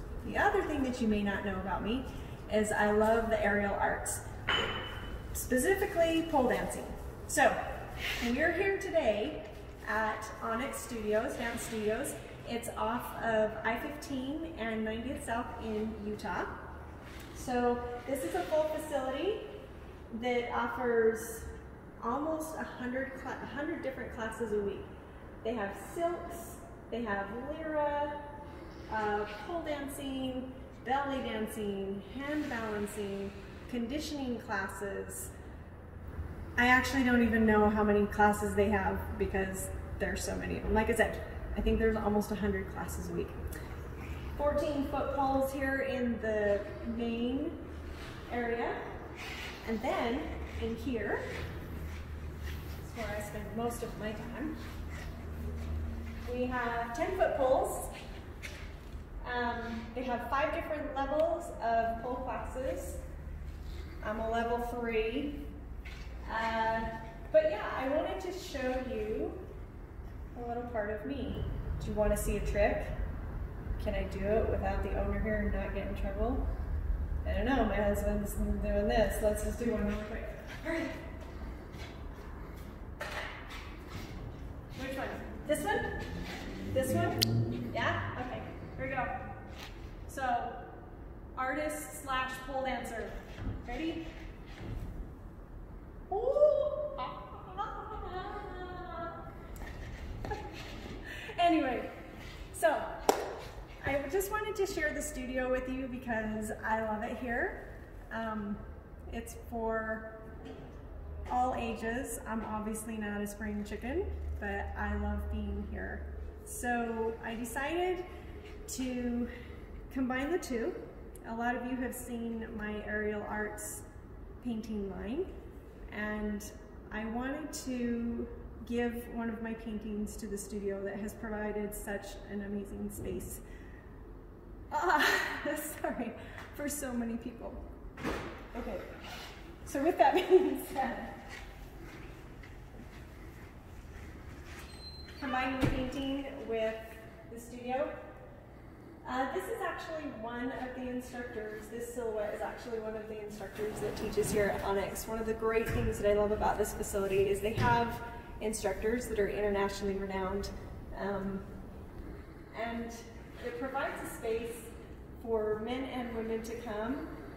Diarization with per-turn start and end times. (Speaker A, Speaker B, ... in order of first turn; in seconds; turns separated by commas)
Speaker A: 0.2-4.2, Speaker A: 5.3-7.6, Speaker A: 8.2-16.7, Speaker A: 17.3-19.6, Speaker A: 20.1-24.9, Speaker A: 25.4-28.2, Speaker A: 28.9-35.3, Speaker A: 36.6-43.4, Speaker A: 44.4-47.6, Speaker A: 48.3-48.8, Speaker A: 49.6-51.3, Speaker A: 52.8-54.6, Speaker A: 56.2-57.9, Speaker A: 59.2-63.0, Speaker A: 64.0-65.4, Speaker A: 66.2-69.4, Speaker A: 70.3-73.0, Speaker A: 73.8-76.5, Speaker A: 77.2-81.0, Speaker A: 84.7-86.0, Speaker A: 86.7-89.2, Speaker A: 90.1-90.6, Speaker A: 91.3-94.1, Speaker A: 96.1-99.2, Speaker A: 101.1-101.9, Speaker A: 102.5-102.9, Speaker A: 103.8-110.2, Speaker A: 111.3-118.0, Speaker A: 118.7-119.3, Speaker A: 119.9-123.8, Speaker A: 124.4-125.3, Speaker A: 125.9-133.4, Speaker A: 134.7-137.6, Speaker A: 138.5-138.9, Speaker A: 139.6-141.2, Speaker A: 145.2-147.9, Speaker A: 149.0-161.4, Speaker A: 162.5-167.1